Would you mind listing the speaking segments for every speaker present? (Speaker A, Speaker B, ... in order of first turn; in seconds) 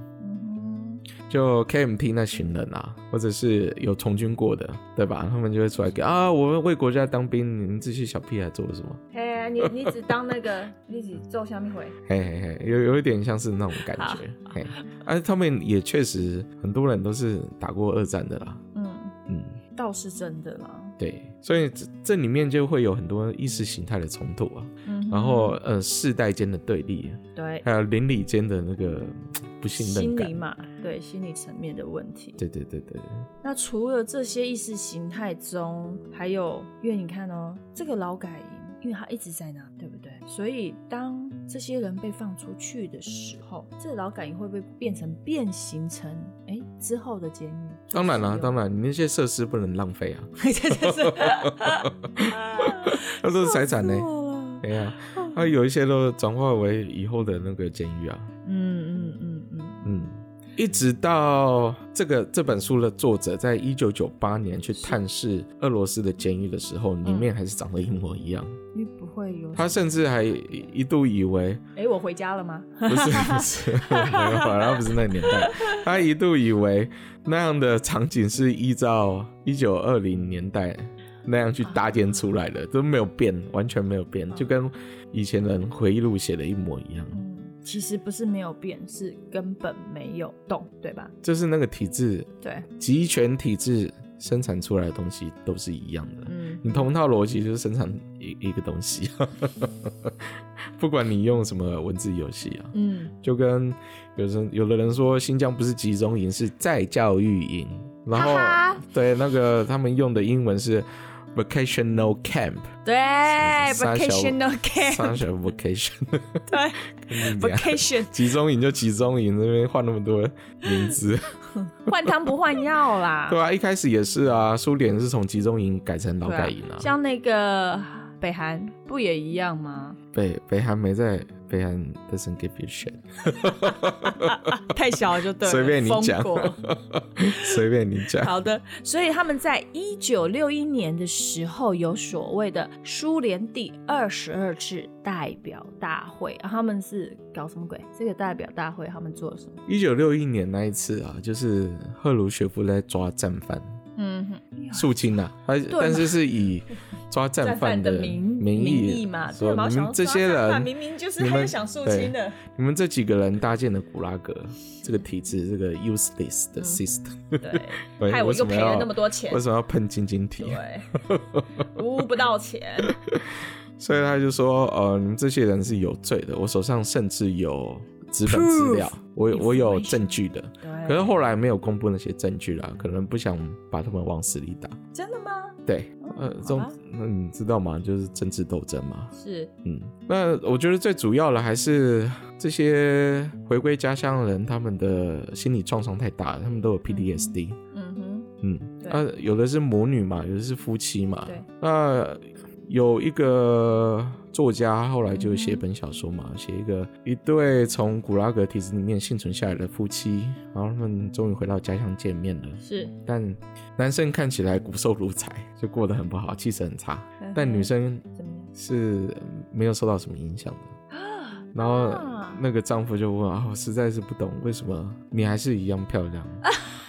Speaker A: 0.2-1.1, 9.1-11.9, 13.9-14.9, 18.7-19.1, 19.7-21.0, 24.8-25.6, 27.4-27.6, 29.8-32.4, 33.4-48.5, 50.4-55.5, 58.4-60.0, 67.0-67.3, 68.7-70.0, 71.8-75.8, 87.1-91.1, 92.4-92.7, 96.3-96.9, 102.7-103.1, 108.1-108.8, 112.8-115.2, 116.5-118.3, 120.7-120.9, 121.6-123.4, 126.2-130.0, 133.4-136.6, 137.2-149.6, 153.9-155.0, 155.7-156.2, 157.4-162.4, 167.4-169.4, 170.4-170.9, 171.7-172.9, 178.2-181.2, 184.9-186.8, 189.1-189.5, 196.9-198.3, 205.1-205.6, 212.6-212.9, 217.2-218.5, 220.9-222.4
Speaker B: 1.3-9.0, 12.1-18.6, 19.3-19.6, 21.0-30.4, 32.4-33.3, 47.9-54.1, 54.6-58.3, 59.8-68.6, 69.5-71.6, 72.8-87.2, 91.2-112.7, 113.3-122.3, 123.3-126.9, 130.1-134.6, 135.4-138.3, 149.7-153.8, 154.7-171.6, 172.8-184.8, 185.7-189.1, 189.6-197.6, 198.4-220.7, 221.5-226.4